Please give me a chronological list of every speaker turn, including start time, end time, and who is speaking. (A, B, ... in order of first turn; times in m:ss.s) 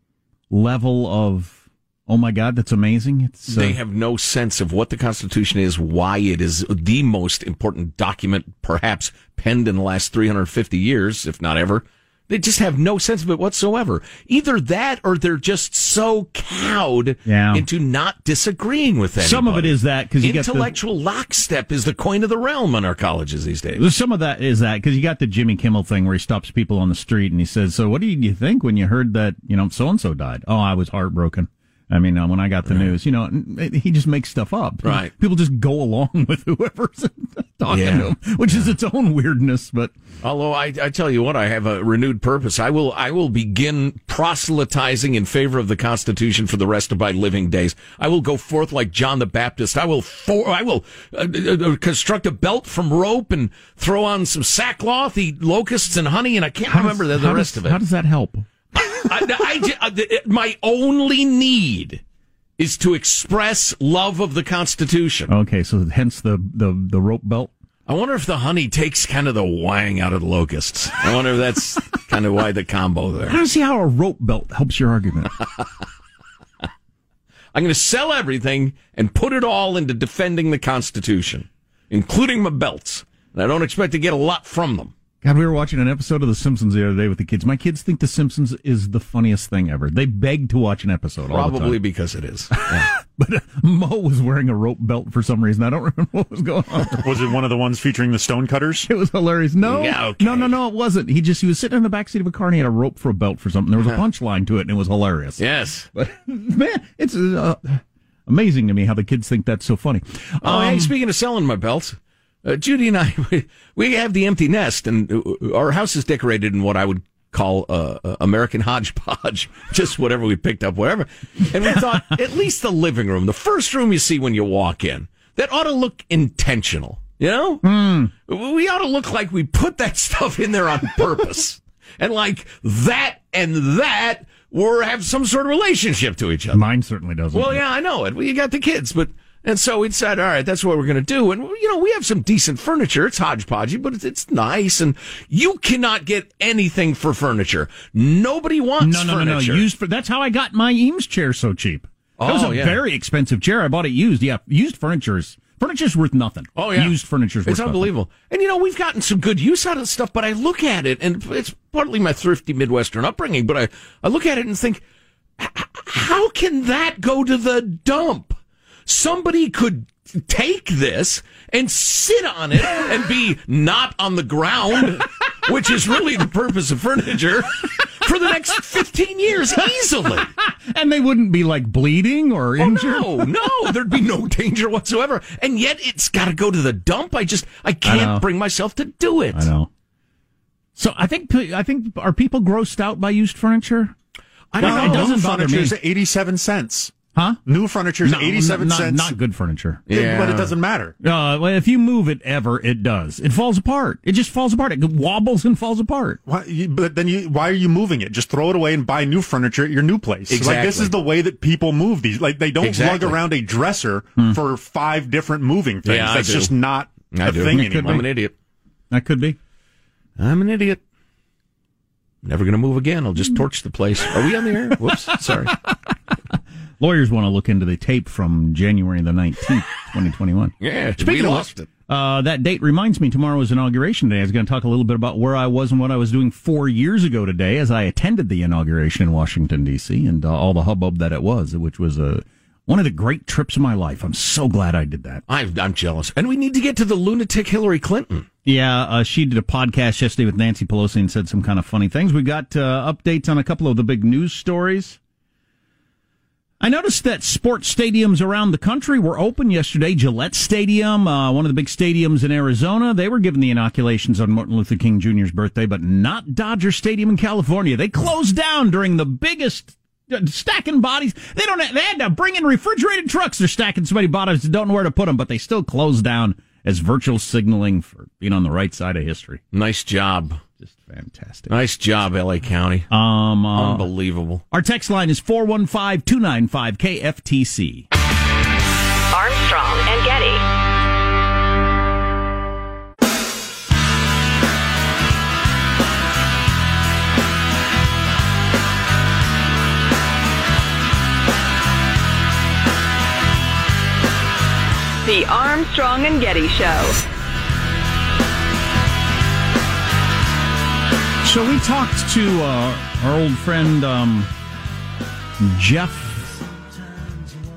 0:00.5-0:03.8 A
0:03.5-0:23.8 B
0:17.3-0:17.6 A
0:19.2-0:20.7 A
0:23.8-0:39.9 A
0:32.7-0:33.0 B
0:34.8-0:35.1 B
0:37.7-0:38.7 B
0:40.2-0:57.8 B
0:56.7-0:58.5 A
0:58.8-1:02.0 B
1:02.6-1:05.3 B
1:05.3-1:07.5 A
1:07.9-1:13.4 B
1:13.3-1:15.4 A
1:17.5-1:24.9 B
1:25.2-1:31.8 A
1:31.3-1:32.9 B
1:32.6-1:37.3 A
1:37.0-1:38.9 C
1:38.9-1:45.4 A
1:39.6-1:40.6 B
1:45.4-1:45.9 B
1:45.9-1:50.9 A
1:50.4-2:07.6 B
2:07.6-2:08.1 A
2:08.3-2:16.6 B
2:16.5-2:17.6 A
2:17.3-2:29.7 B
2:28.8-2:37.9 A
2:32.2-2:32.8 B
2:36.6-2:44.8 B
2:45.4-3:00.3 B
3:00.3-3:03.3 A
3:02.6-3:09.5 B
3:07.8-3:08.2 A
3:09.3-3:09.7 A
3:10.8-3:14.0 A
3:14.5-3:15.2 B
3:14.6-3:19.1 C
3:14.6-3:15.8 A
3:17.1-3:17.4 A
3:18.0-3:19.9 A
3:19.9-3:20.6 B
3:19.9-3:21.0 C
3:21.0-3:26.2 A
3:26.3-3:38.0 C
3:30.3-3:31.0 B
3:32.6-3:33.2 B
3:35.8-3:36.5 B
3:37.1-3:38.3 B
3:37.5-3:38.1 A
3:38.9-3:39.4 A
3:40.2-3:40.8 B
3:42.2-3:45.6 B
3:46.8-4:05.2 A
3:50.6-3:51.7 B
4:05.3-4:08.3 B
4:08.4-4:15.0 A
4:16.6-4:39.4 A
4:39.5-4:40.4 B
4:40.6-4:41.5 A
4:41.5-4:42.9 B
4:42.9-4:43.9 A
4:43.5-4:44.4 B
4:44.5-4:47.9 A
4:49.1-4:50.4 D
5:05.0-5:07.0 D
5:11.2-5:14.3 A
5:15.4-5:16.3 A